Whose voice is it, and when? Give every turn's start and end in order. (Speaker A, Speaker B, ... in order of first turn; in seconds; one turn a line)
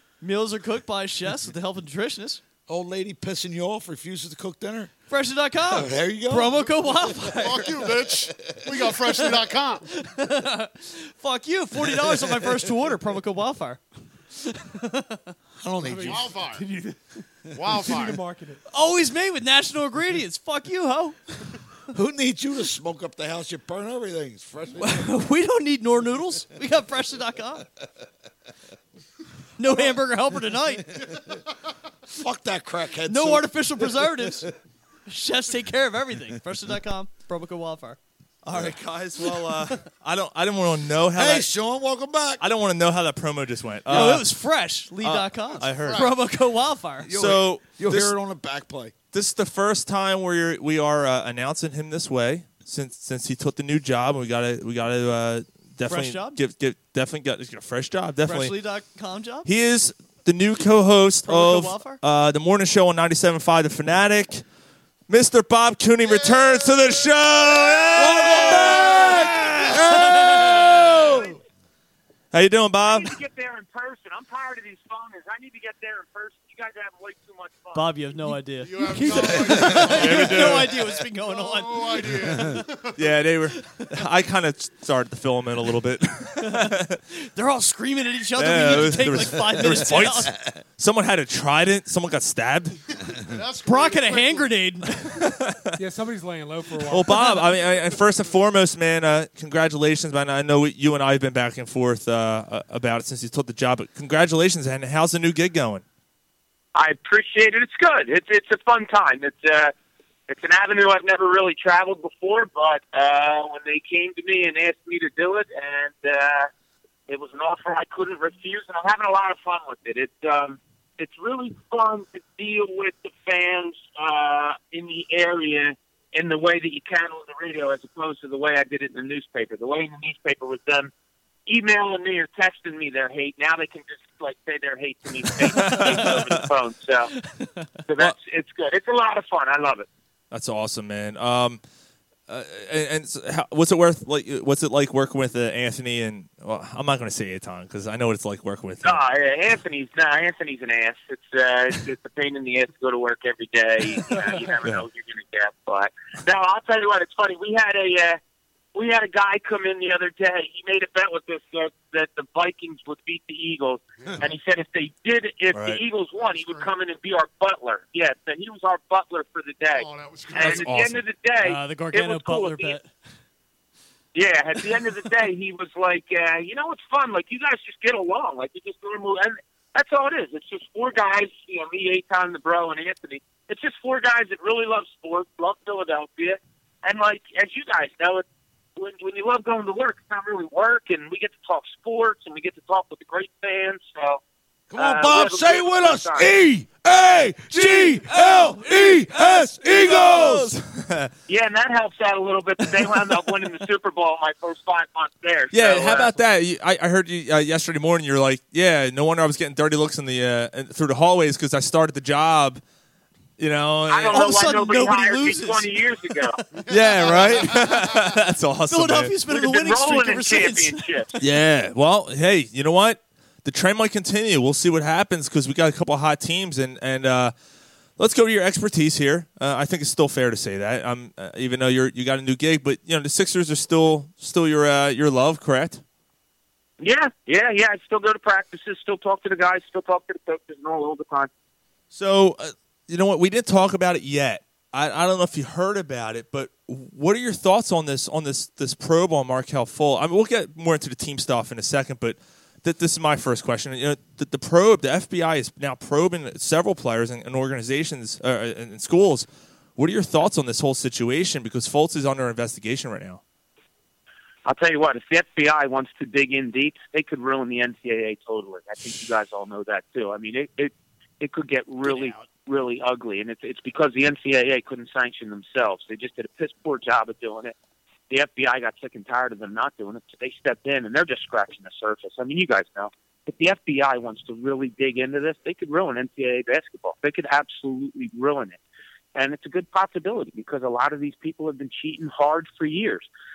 Speaker A: 0.2-2.4
Speaker B: 2.7-4.9
Speaker A: 5.1-7.9
Speaker B: 5.7-8.9
Speaker C: 7.3-9.9
Speaker A: 9.9-15.3
Speaker B: 11.9-12.7
Speaker B: 15.6-16.4
Speaker D: 15.8-18.6
Speaker C: 16.0-16.7
Speaker C: 17.5-18.2
Speaker A: 18.7-21.6
Speaker B: 21.9-25.1
Speaker A: 24.8-27.7
Speaker A: 29.6-30.9
Speaker B: 30.9-31.3
Speaker C: 31.0-31.4
Speaker B: 32.1-34.5
Speaker A: 33.0-34.5
Speaker A: 35.1-38.0
Speaker E: 38.5-41.5
Speaker A: 38.5-39.9
Speaker B: 38.5-38.8
Speaker B: 41.1-42.4
Speaker E: 42.4-44.4
Speaker A: 43.9-47.1
Speaker B: 43.9-44.2
Speaker E: 45.0-46.1
Speaker C: 45.5-46.2
Speaker B: 47.0-49.0
Speaker E: 47.1-48.2
Speaker E: 49.1-58.6
Speaker A: 55.8-56.4
Speaker A: 58.3-59.5
Speaker E: 59.5-64.5
Speaker A: 61.2-62.0
Speaker E: 65.1-71.1
Speaker C: 66.0-69.1
Speaker B: 68.0-71.2
Speaker E: 72.3-73.2
Speaker F: 72.8-77.9
Speaker A: 77.8-82.6
Speaker C: 78.6-80.7
Speaker D: 79.0-79.3
Speaker E: 79.8-80.8
Speaker C: 81.2-83.2
Speaker E: 83.0-87.0
Speaker A: 83.6-83.9
Speaker A: 86.4-90.3
Speaker E: 88.3-92.8
Speaker B: 89.7-90.6
Speaker C: 93.2-94.6
Speaker A: 93.6-95.2
Speaker E: 95.1-95.8
Speaker D: 95.8-97.2
Speaker E: 96.9-105.8
Speaker F: 106.8-109.7
Speaker F: 110.3-116.5
Speaker F: 117.1-130.9
Speaker F: 131.5-137.1
Speaker E: 135.3-136.5
Speaker A: 135.6-136.1
Speaker A: 137.1-137.8
Speaker F: 137.9-139.9
Speaker E: 140.3-141.6
Speaker E: 142.3-149.0
Speaker F: 148.8-158.2
Speaker F: 158.8-172.8
Speaker E: 165.5-165.8
Speaker C: 166.2-166.7
Speaker C: 169.8-170.8
Speaker E: 170.4-171.0
Speaker A: 171.4-172.9
Speaker F: 174.1-188.2
Speaker F: 188.8-194.2
Speaker B: 194.7-200.5
Speaker F: 194.8-196.3
Speaker E: 197.6-201.1
Speaker F: 201.3-206.2
Speaker E: 205.5-212.6
Speaker E: 213.4-214.2
Speaker F: 213.9-216.4
Speaker A: 214.1-216.5
Speaker C: 216.6-218.1
Speaker E: 216.7-219.2
Speaker A: 218.7-221.0
Speaker F: 219.2-221.1
Speaker E: 221.2-227.3
Speaker E: 228.0-235.8
Speaker F: 236.8-241.3
Speaker E: 241.9-263.2
Speaker F: 264.5-277.5
Speaker A: 271.8-272.3
Speaker F: 278.1-288.6
Speaker F: 289.1-293.1